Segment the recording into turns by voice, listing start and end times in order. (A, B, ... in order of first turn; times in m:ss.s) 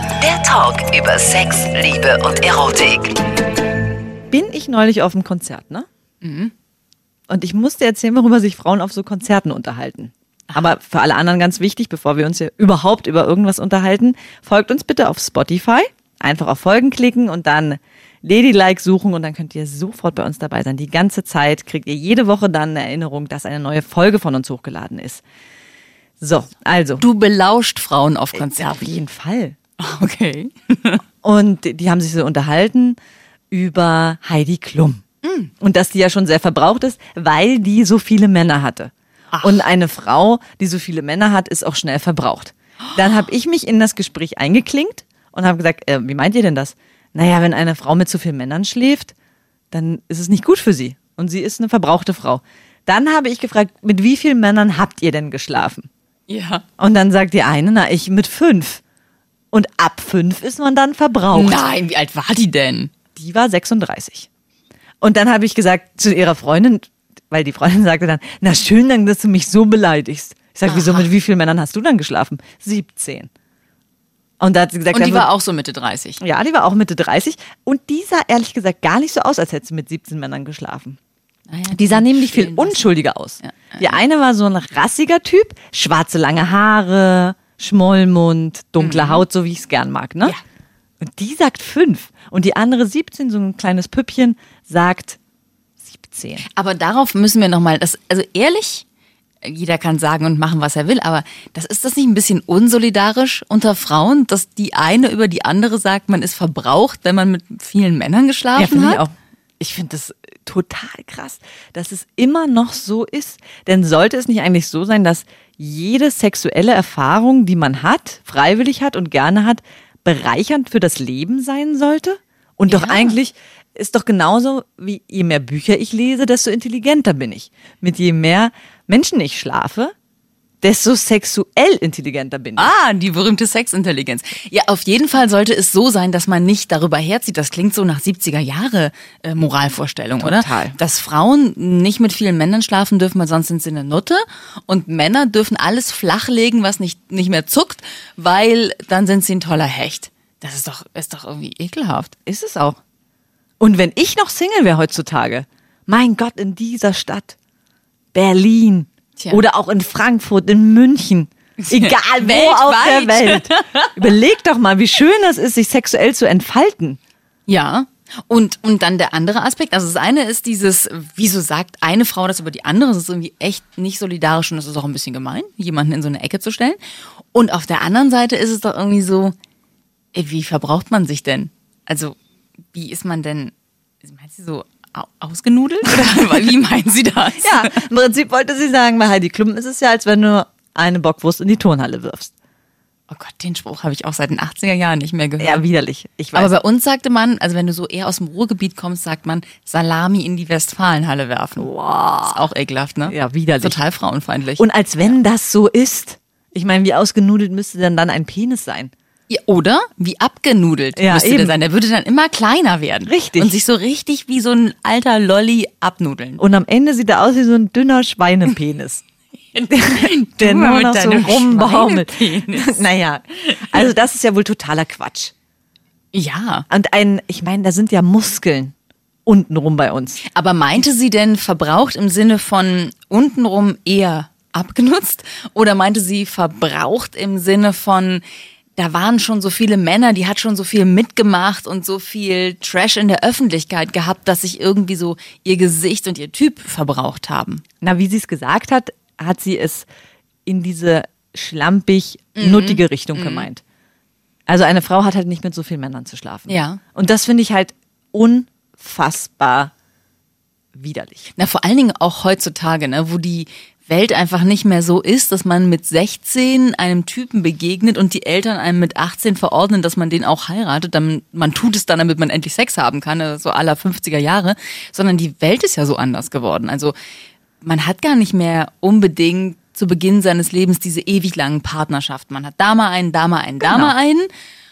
0:00.2-0:03.2 A
0:04.3-0:05.8 B
0:06.2-0:06.5 C
0:07.3-0:25.2 B
0:10.5-0:10.8 C
0:26.2-0:27.0 B
0:27.0-0:29.0 C
0:28.4-0:29.6 B
0:29.8-0:31.0 C
0:31.2-0:33.0 B
0:33.5-0:35.0 B
0:35.2-0:35.5 C
0:35.6-0:49.1 B
0:39.3-0:39.6 C
0:49.7-0:55.9 B
0:56.3-0:56.6 C
0:56.8-0:58.8 B
0:59.5-1:01.6 B
1:01.3-1:02.9 C
1:03.2-1:04.3 B
1:05.0-1:13.3 B
1:10.7-1:11.1 C
1:14.4-1:15.3 B
1:14.9-1:16.2 C
1:16.2-1:21.0 B
1:21.5-1:24.0 C
1:21.7-1:30.4 B
1:28.8-1:29.2 C
1:31.0-1:35.2 B
1:35.8-1:36.4 B
1:36.4-1:38.8 C
1:39.4-1:49.0 C
1:48.6-2:09.9 B
2:02.7-2:03.2 C
2:10.6-2:12.7 B
2:12.6-2:32.1 C
2:20.2-2:20.8 B
2:32.3-2:32.8 B
2:33.6-2:37.4 B
2:38.1-2:47.0 B
2:39.2-2:39.4 C
2:41.6-2:44.0 C
2:47.5-2:56.8 C
2:57.3-2:59.3 C
3:00.1-3:02.2 C
3:02.7-3:03.5 C
3:04.0-3:07.8 C
3:07.4-3:12.3 B
3:13.1-3:15.6 C
3:15.4-3:16.6 B
3:16.3-3:21.7 C
3:21.6-3:22.4 B
3:22.2-3:25.2 C
3:23.1-3:23.8 B
3:24.6-3:28.9 B
3:29.3-3:36.4 C
3:31.0-3:31.6 B
3:33.1-3:33.6 B
3:36.4-3:39.0 B
3:39.5-3:42.8 C
3:39.7-3:45.3 B
3:43.5-3:43.8 C
3:46.1-3:46.6 C
3:46.7-3:48.7 B
3:49.3-3:50.2 B
3:50.3-3:58.2 C
3:58.8-4:07.6 C
4:07.8-4:09.9 B
4:10.5-4:13.6 B
4:12.4-4:13.5 C
4:14.5-4:19.7 B
4:16.5-4:16.8 C
4:20.8-4:21.3 B
4:21.4-4:37.0 C
4:37.6-4:44.3 C
4:43.6-4:44.0 B